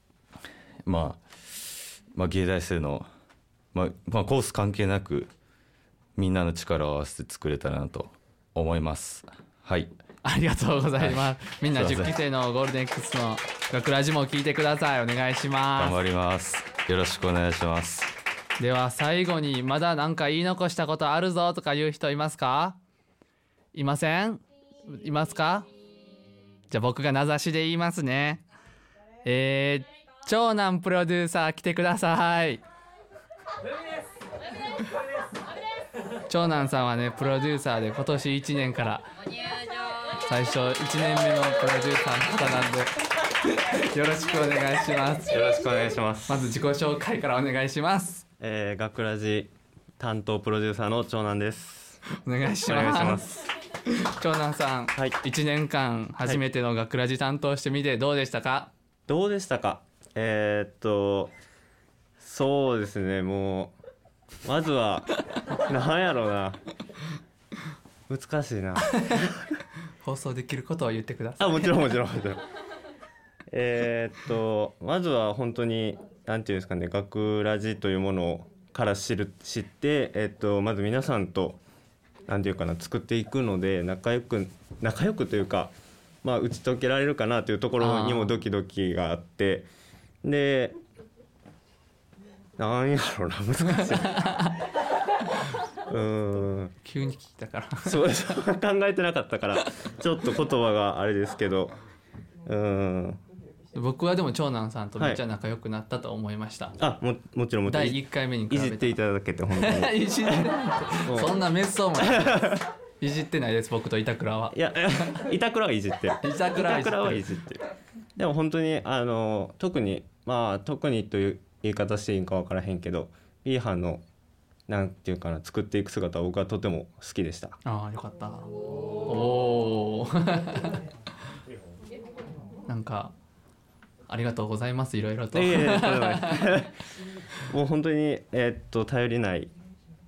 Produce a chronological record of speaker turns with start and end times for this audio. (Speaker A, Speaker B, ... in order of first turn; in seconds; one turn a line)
Speaker A: 0.8-3.1
Speaker A: 3.7-5.3
Speaker A: 6.2-9.9
Speaker B: 10.2-16.0
Speaker A: 11.0-12.1
Speaker A: 15.8-18.1
Speaker B: 18.6-22.8
Speaker B: 23.7-25.7
Speaker B: 26.7-28.4
Speaker B: 29.2-32.6
Speaker B: 36.3-39.1
Speaker B: 40.2-42.9
Speaker B: 43.4-45.4
Speaker C: 45.3-46.4
Speaker B: 46.3-48.2
Speaker C: 48.4-52.0
Speaker B: 52.2-58.7
Speaker C: 52.6-53.3
Speaker C: 59.1-61.3
Speaker C: 62.2-63.7
Speaker C: 64.5-65.1
Speaker C: 65.7-66.6
Speaker C: 68.1-68.8
Speaker B: 69.0-69.2
Speaker B: 70.0-71.9
Speaker C: 71.4-72.4
Speaker C: 73.5-81.6
Speaker C: 82.3-85.7
Speaker C: 86.2-89.7
Speaker B: 87.8-88.4
Speaker C: 90.2-90.8
Speaker C: 92.6-94.2
Speaker B: 94.2-94.5
Speaker C: 95.9-96.7
Speaker B: 96.8-98.2
Speaker C: 97.8-101.7
Speaker C: 102.5-103.2
Speaker B: 103.7-106.8
Speaker C: 106.8-110.5
Speaker B: 107.7-109.0
Speaker B: 109.5-114.5
Speaker C: 111.0-111.4
Speaker C: 112.0-112.6
Speaker C: 114.5-117.6
Speaker B: 116.2-117.2
Speaker C: 118.2-124.0
Speaker C: 124.7-127.6
Speaker B: 127.6-130.8
Speaker B: 132.7-133.1
Speaker B: 134.1-136.5
Speaker C: 135.3-136.7
Speaker C: 137.5-139.5